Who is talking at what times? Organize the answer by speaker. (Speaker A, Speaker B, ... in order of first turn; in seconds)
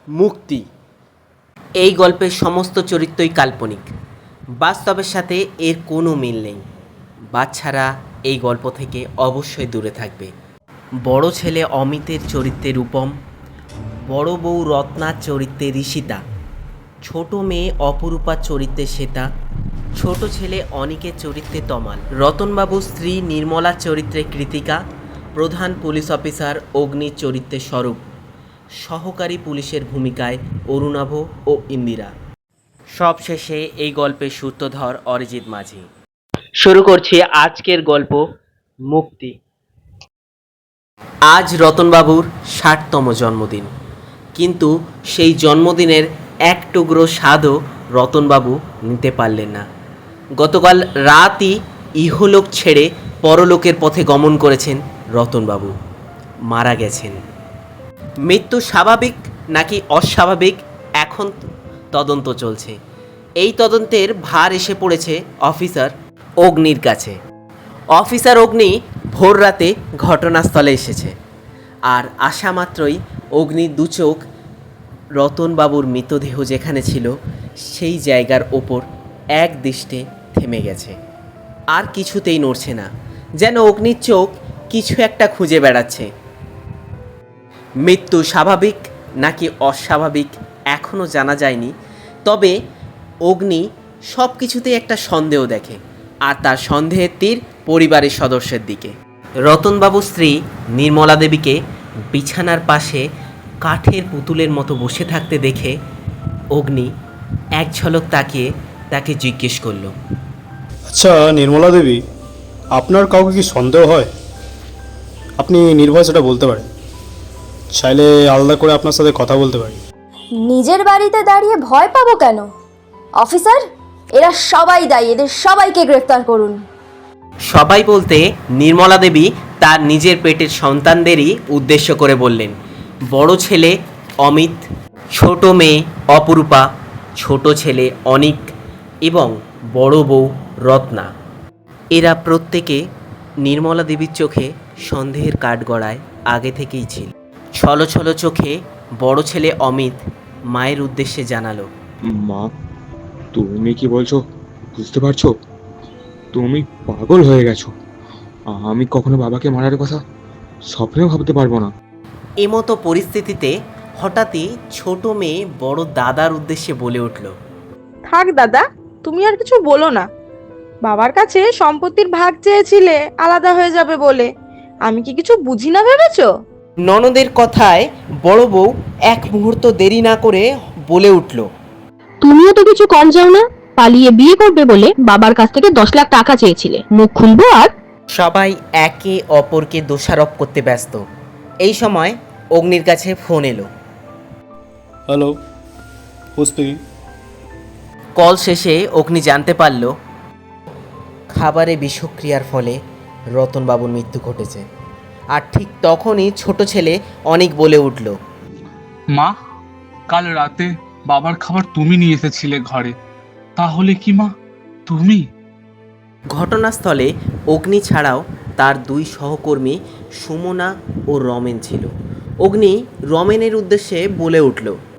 Speaker A: 0.2-0.6, 1.8-3.9, 4.6-6.6, 7.3-10.3, 11.1-13.1, 14.1-16.2, 17.1-19.3, 20.0-24.8, 25.4-28.0, 28.8-32.1, 33.0-35.9, 36.6-38.2, 38.9-39.3, 41.3-43.7, 44.4-49.6, 50.4-55.7, 56.5-57.2, 58.3-62.8, 63.4-67.2, 68.0-71.1, 71.9-74.2, 75.2-77.1, 77.7-78.8, 79.4-80.9, 81.7-82.9, 83.4-86.1, 87.8-91.7, 92.3-92.5, 93.2-98.9, 99.5-101.6, 102.1-103.0, 103.6-105.7, 106.5-106.9, 107.6-109.9, 127.5-132.6, 133.1-136.7, 137.2-138.5, 139.1-141.1, 141.9-142.8, 143.4-150.0, 150.5-151.7, 162.4-167.3, 176.8-181.5, 188.2-191.0, 191.6-193.7, 198.2-199.9, 201.3-202.8, 203.3-204.7, 205.3-208.2, 216.3-221.9, 222.4-224.8
Speaker B: 110.9-112.0, 112.8-114.1, 115.4-116.7, 117.8-119.8, 195.1-195.4, 196.4-196.8
Speaker C: 120.4-122.5, 123.2-123.6, 124.2-126.6
Speaker D: 152.1-152.5, 153.3-154.2, 154.8-155.3, 156.3-157.7, 158.5-160.0, 160.7-161.7
Speaker E: 168.1-170.1, 170.8-174.3, 174.8-176.3
Speaker F: 182.2-187.7
Speaker G: 210.1-212.9, 213.6-214.3, 214.9-215.2